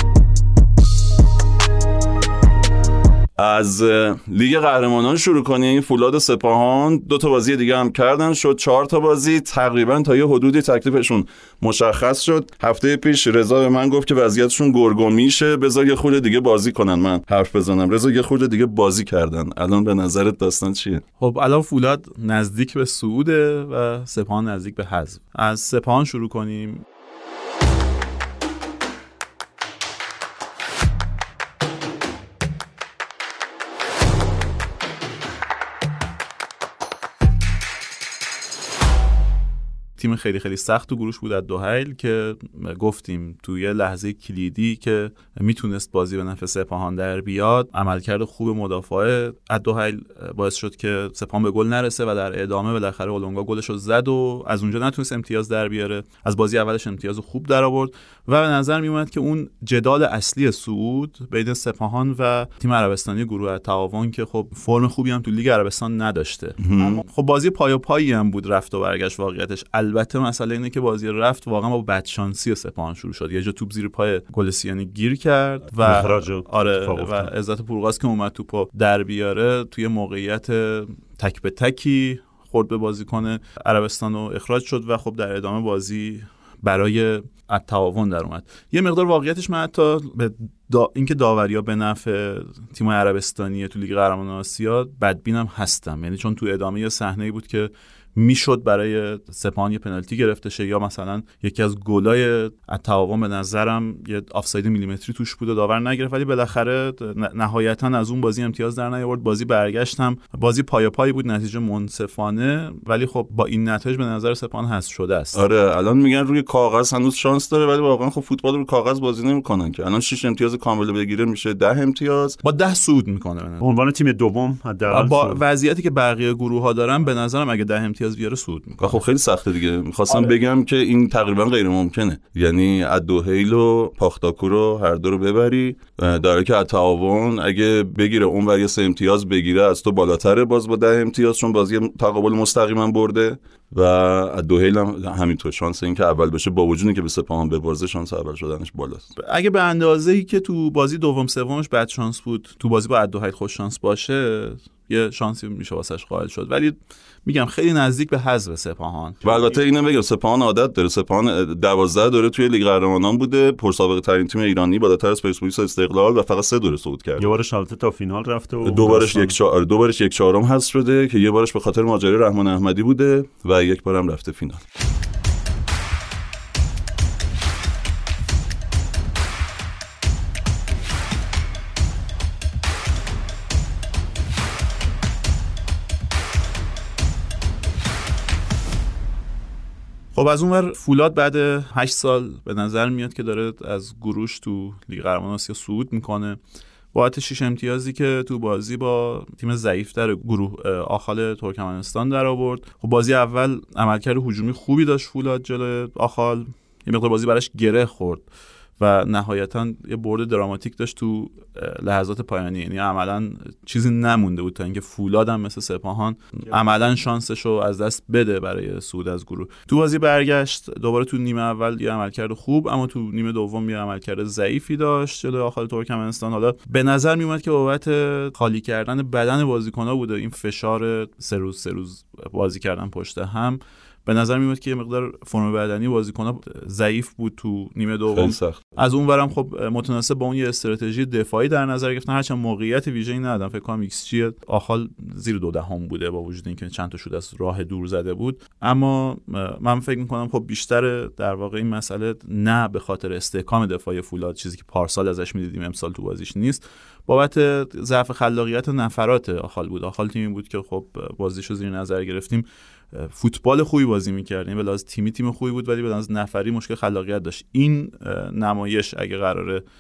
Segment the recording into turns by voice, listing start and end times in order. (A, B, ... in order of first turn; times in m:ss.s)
0:03.4-0:21.0 A
0:21.2-0:26.8 B
0:40.0-1:55.4 B
1:06.6-1:07.0 A
1:15.8-1:17.3 C
1:55.3-2:02.4 A
2:02.4-2:03.6 B
2:03.6-2:05.4 C
2:04.9-2:09.0 B
2:08.8-2:29.1 A
2:29.2-2:39.5 B
2:39.2-2:47.3 A
2:47.2-2:49.4 C
2:48.6-2:54.6 A
3:10.2-3:16.4 B
3:16.9-3:28.2 B
3:28.8-4:29.6 B
3:58.1-3:58.6 A